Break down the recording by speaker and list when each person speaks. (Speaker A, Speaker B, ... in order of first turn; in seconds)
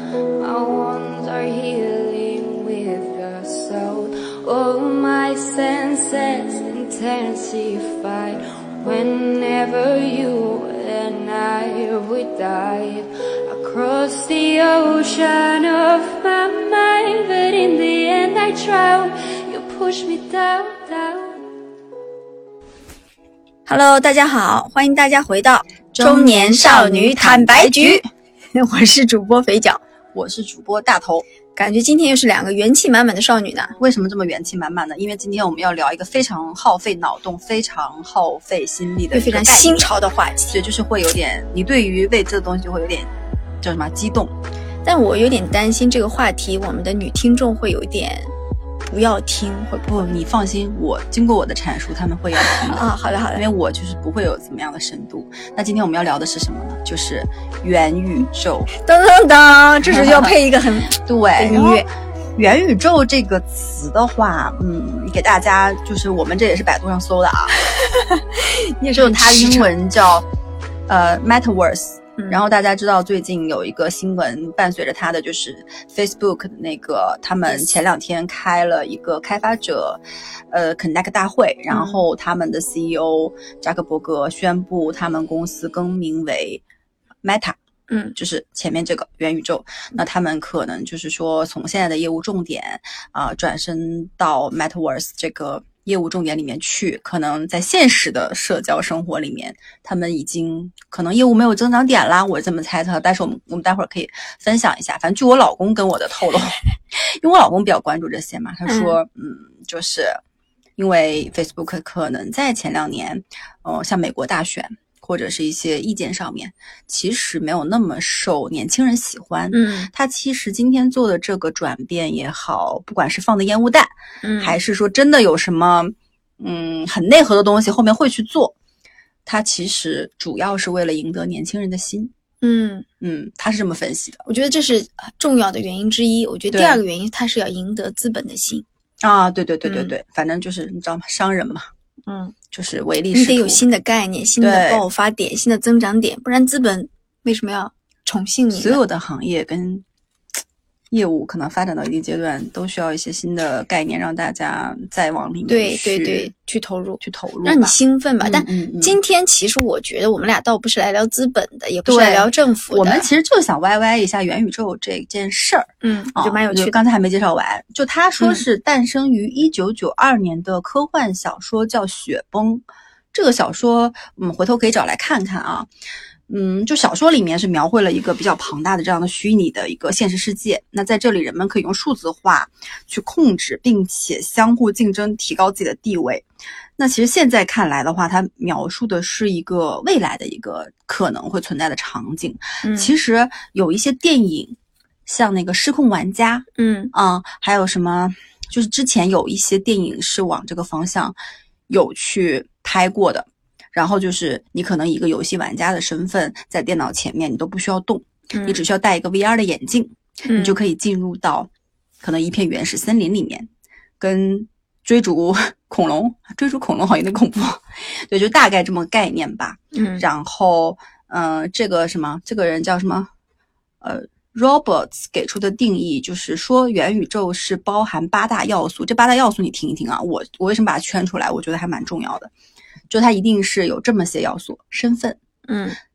Speaker A: 0.4-21.4
Speaker B: 23.7-28.0, 28.5-29.8, 31.6-33.8, 39.1-40.6, 44.8-48.3, 48.9-49.9, 52.4-53.4, 58.7-61.9, 67.8-69.7, 81.7-82.0, 87.9-88.1, 108.7-109.0, 119.5-119.9, 124.2-124.6, 132.4-132.9, 134.2-138.6, 139.6-139.9, 142.1-142.3, 143.1-148.8, 155.5-163.1, 165.8-166.8, 192.6-192.9, 196.6-196.9, 208.3-208.6, 210.2-210.6, 219.7-220.0, 235.5-235.8
Speaker C: 25.9-28.1, 30.1-31.2, 33.8-43.1, 43.6-44.3, 49.8-58.7, 59.8-60.4, 60.9-67.6, 68.9-70.2, 70.9-86.6, 87.2-87.5, 88.2-110.2, 110.8-128.5, 129.2-132.1, 133.0-134.2, 136.5-136.8, 139.0-141.7, 142.5-143.6, 144.4-144.8, 148.5-149.8, 150.9-156.3, 157.0-159.0, 161.8-175.7, 176.3-186.2, 186.8-201.1, 201.7-211.5, 212.0-223.1, 223.8-232.3, 232.9-235.2